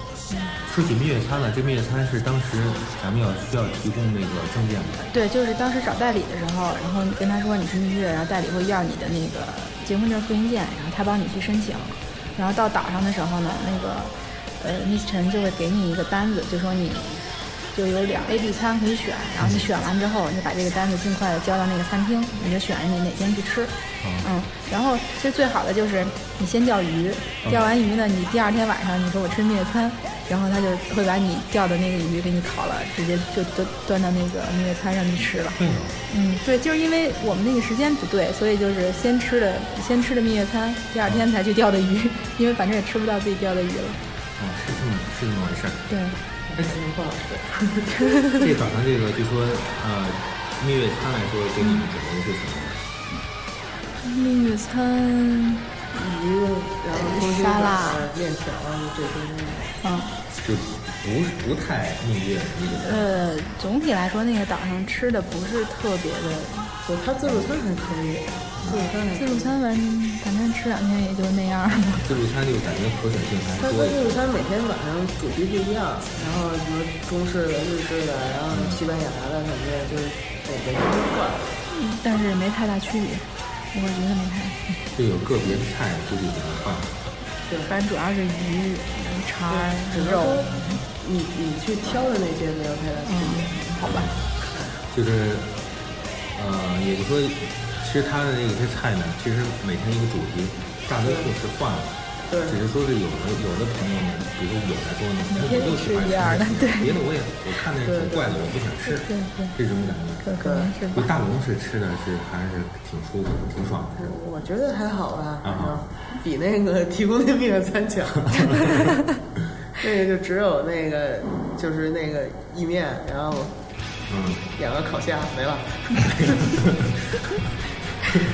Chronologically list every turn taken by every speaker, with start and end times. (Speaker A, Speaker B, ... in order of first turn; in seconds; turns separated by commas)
Speaker A: 0.6-5.1, Speaker B: 5.1-44.0, Speaker A: 24.0-24.3, Speaker A: 27.4-27.7, Speaker A: 35.5-36.0, Speaker A: 44.4-45.9, Speaker B: 45.9-46.2, Speaker C: 46.5-48.1, Speaker A: 48.3-52.8, Speaker B: 54.0-55.6, Speaker C: 55.9-59.7, Speaker B: 56.9-58.0, Speaker B: 59.8-60.1, Speaker A: 60.4-63.1, Speaker B: 62.8-66.7, Speaker C: 66.8-69.6, Speaker B: 69.1-72.0, Speaker A: 72.0-74.2, Speaker C: 73.6-81.5, Speaker A: 78.5-78.8, Speaker B: 81.7-84.8, Speaker A: 84.9-86.9, Speaker B: 87.7-90.8, Speaker C: 89.5-94.0, Speaker B: 93.1-94.1, Speaker A: 93.8-94.2, Speaker A: 94.8-95.6, Speaker A: 96.3-110.2, Speaker C: 101.0-101.3, Speaker C: 102.3-102.6, Speaker B: 105.3-106.9, Speaker C: 107.8-108.4, Speaker B: 108.9-109.5, Speaker B: 110.2-111.0, Speaker C: 110.4-110.7, Speaker A: 110.9-114.1, Speaker C: 114.0-118.8, Speaker A: 115.4-115.9, Speaker A: 118.3-118.7, Speaker C: 119.8-123.5, Speaker A: 124.1-124.5, Speaker C: 124.6-126.5, Speaker A: 126.1-127.0